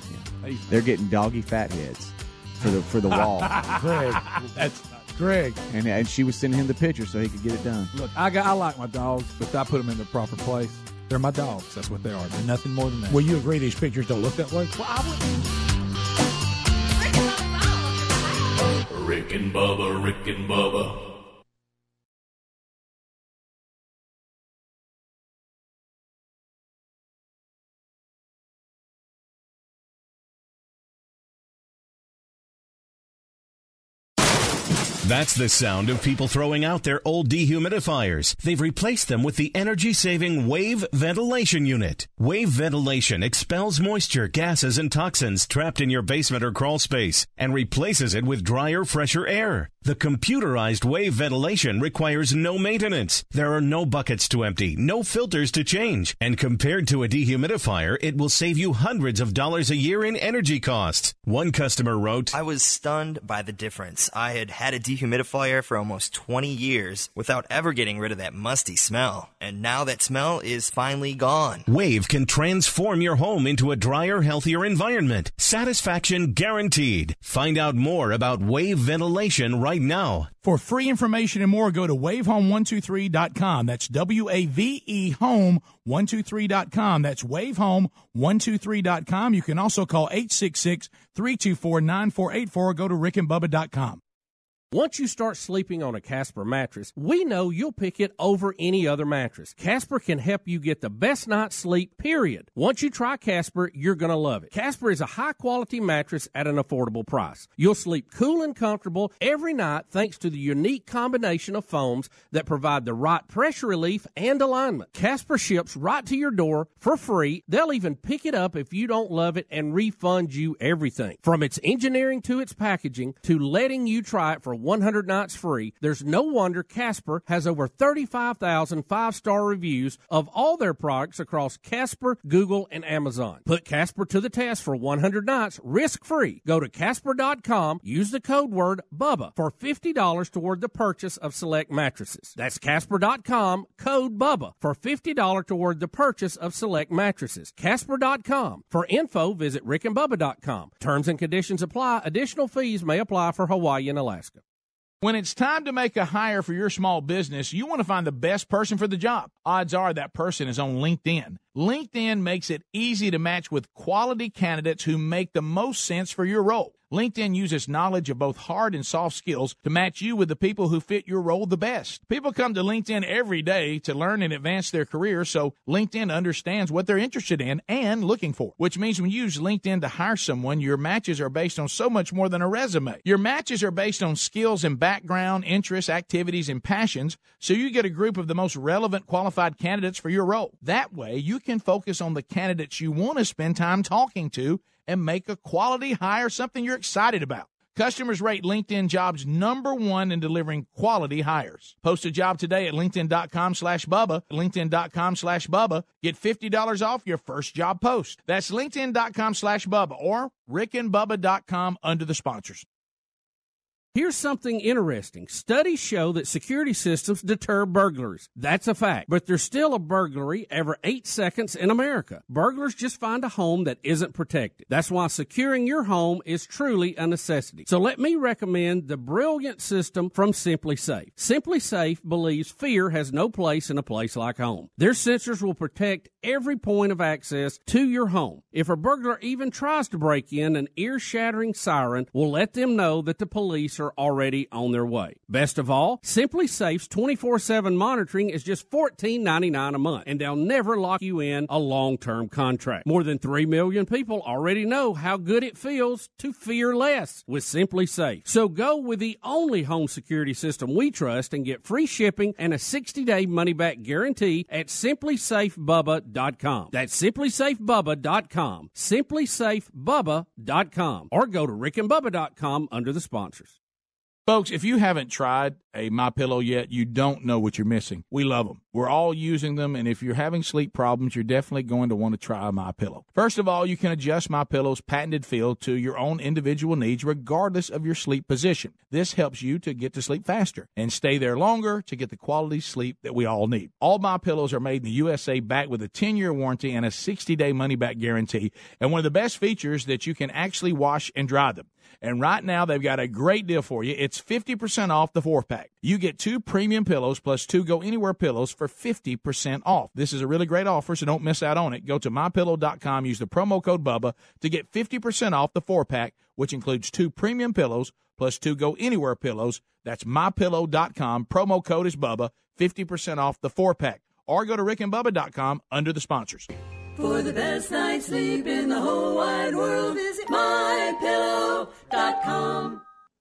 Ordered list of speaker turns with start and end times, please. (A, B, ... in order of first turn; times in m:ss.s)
0:00.1-0:03.6 A
0:00.4-0:00.8 B
0:03.1-0:05.1 B
0:03.8-0:04.2 C
0:05.2-0:05.6 C
0:05.7-0:07.9 A
0:07.9-0:13.3 B
0:13.1-0:14.7 C
0:14.8-0:15.3 B
0:18.9-0:21.0 D
0:35.0-1:02.3 E
1:02.3-1:11.6 F
1:11.7-1:20.3 E
1:20.4-1:34.0 G
1:34.7-2:34.4 H
2:35.0-3:32.6 G
3:33.9-4:33.6 H
4:34.3-5:26.5 G
5:27.0-5:32.8 I